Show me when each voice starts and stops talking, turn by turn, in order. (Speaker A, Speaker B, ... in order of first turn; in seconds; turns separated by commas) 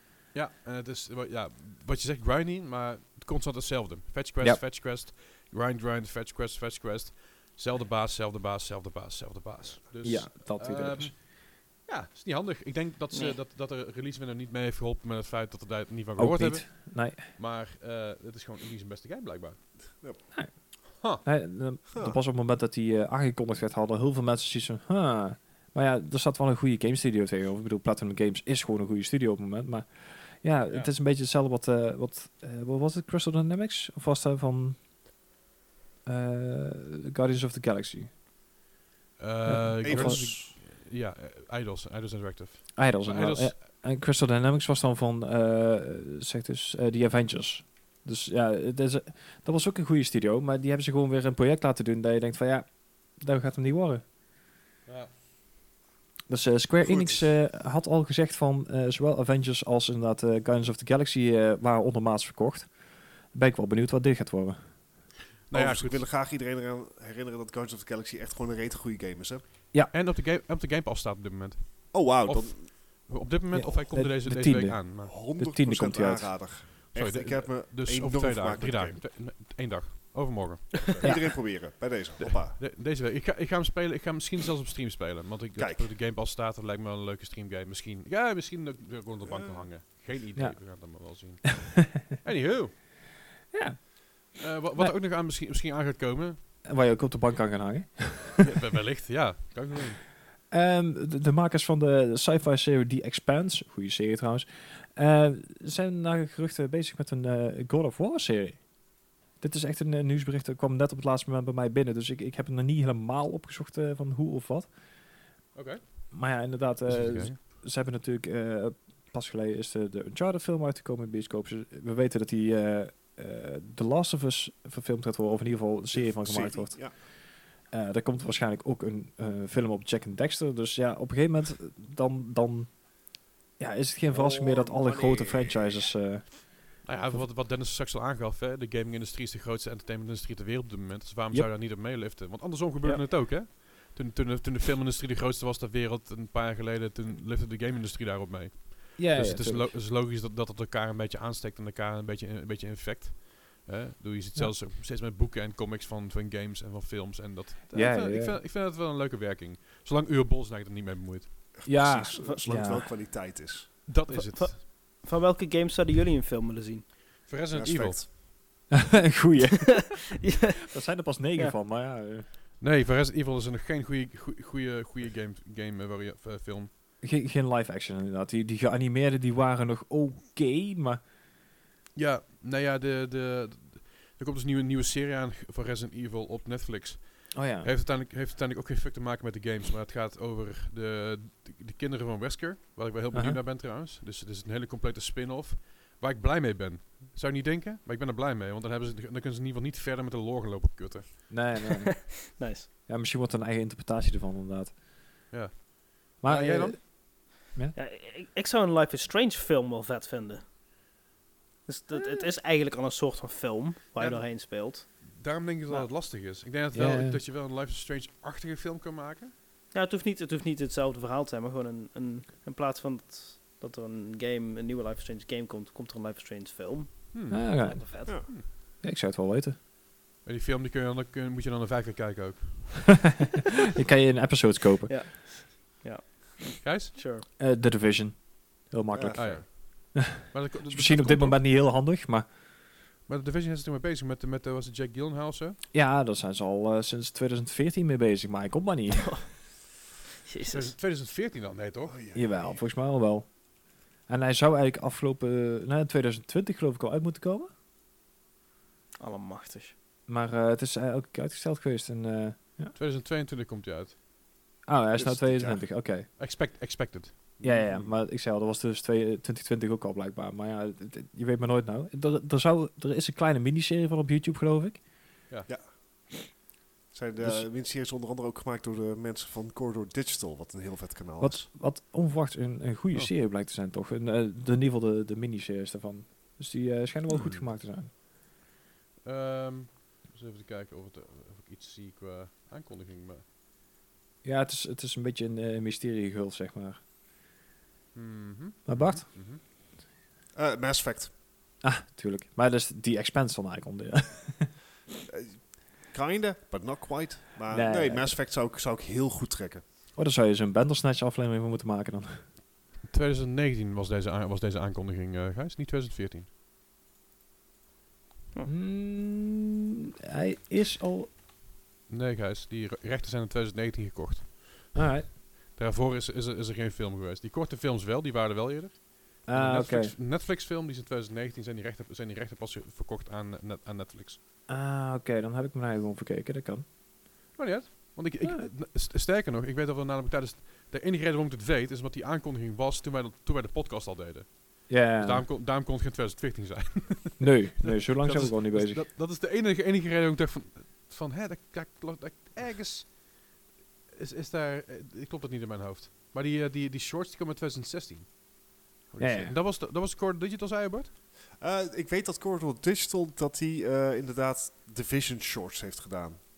Speaker A: 0.3-19.7, Speaker B: 10.0-11.1, Speaker C: 13.1-13.4, Speaker B: 16.2-17.2, Speaker D: 19.9-20.2, Speaker B: 20.3-34.8, Speaker D: 21.9-22.2, Speaker B: 36.0-38.1, Speaker A: 39.2-43.5, Speaker B: 39.5-40.4, Speaker D: 39.8-40.5, Speaker B: 42.7-54.0, Speaker A: 54.9-55.1, Speaker B: 56.3-64.8, Speaker D: 56.8-57.3, Speaker A: 65.5-66.1, Speaker D: 65.5-69.5, Speaker A: 69.9-75.2, Speaker D: 71.9-73.0, Speaker B: 73.5-76.5, Speaker D: 75.0-79.0, Speaker A: 76.9-92.7, Speaker D: 81.0-82.6, Speaker B: 81.0-81.3, Speaker D: 85.5-85.9, Speaker D: 89.3-89.7, Speaker B: 90.3-91.3, Speaker B: 93.5-94.9, Speaker A: 94.4-96.4, Speaker B: 96.7-98.4, Speaker A: 98.4-100.0, Speaker B: 100.5-114.9, Speaker A: 115.5-117.4, Speaker B: 116.1-133.0, Speaker D: 125.9-126.9, Speaker B: 133.6-137.3, Speaker D: 134.1-135.8, Speaker A: 136.8-161.8, Speaker B: 149.0-149.8, Speaker B: 157.7-158.4, Speaker D: 161.6-163.8, Speaker B: 161.7-162.9, Speaker A: 163.9-164.6, Speaker C: 164.1-166.9, Speaker A: 167.2-168.1, Speaker D: 167.5-168.1, Speaker B: 168.7-170.0, Speaker C: 169.9-170.7, Speaker B: 170.7-172.3, Speaker A: 172.6-176.7, Speaker B: 177.0-181.0, Speaker A: 181.9-201.4, Speaker B: 187.3-187.7, Speaker B: 193.1-193.4, Speaker B: 201.3-202.3, Speaker C: 202.3-202.7, Speaker B: 202.8-204.8, Speaker A: 205.3-206.8, Speaker B: 206.2-207.8, Speaker C: 207.7-210.4, Speaker C: 211.7-215.9, Speaker B: 211.9-212.3, Speaker A: 214.0-219.3, Speaker B: 216.7-217.2, Speaker C: 219.7-228.2, Speaker A: 227.1-228.4, Speaker B: 227.3-229.6, Speaker A: 230.2-233.0, Speaker B: 233.8-234.9, Speaker C: 234.9-237.2, Speaker A: 236.6-236.9, Speaker B: 237.4-242.3, Speaker D: 238.9-239.4, Speaker A: 239.1-241.4, Speaker A: 243.1-245.6, Speaker B: 245.7-249.3, Speaker C: 250.2-250.7, Speaker A: 250.5-251.9, Speaker D: 251.9-252.6, Speaker B: 252.1-257.5, Speaker C: 259.0-259.7, Speaker B: 260.1-262.7, Speaker A: 262.7-263.9, Speaker B: 264.6-266.1, Speaker D: 264.9-265.7, Speaker A: 266.1-267.6, Speaker D: 267.4-267.9, Speaker B: 267.4-274.9, Speaker D: 275.5-275.8, Speaker D: 276.9-281.5, Speaker B: 277.2-277.5, Speaker B: 281.2-287.9, Speaker D: 287.1-287.4, Speaker A: 289.0-293.2, Speaker B: 294.2-296.8, Speaker A: 297.9-299.4, Speaker B: 298.6-299.1, Speaker D: 300.3-301.1, Speaker B: 301.6-304.6, Speaker D: 305.1-309.6, Speaker B: 307.5-308.2, Speaker B: 309.9-312.3, Speaker A: 312.9-316.3, Speaker B: 318.5-319.5, Speaker B: 320.1-321.1, Speaker A: 321.9-324.8, Speaker B: 324.7-325.1, Speaker A: 325.5-334.2, Speaker B: 329.2-329.9, Speaker B: 334.5-336.6, Speaker A: 337.3-353.1, Speaker B: 338.2-338.5, Speaker B: 344.7-345.3, Speaker B: 347.2-348.9, Speaker A: 353.9-358.2, Speaker A: 358.8-360.9, Speaker B: 359.0-359.4, Speaker D: 361.4-366.2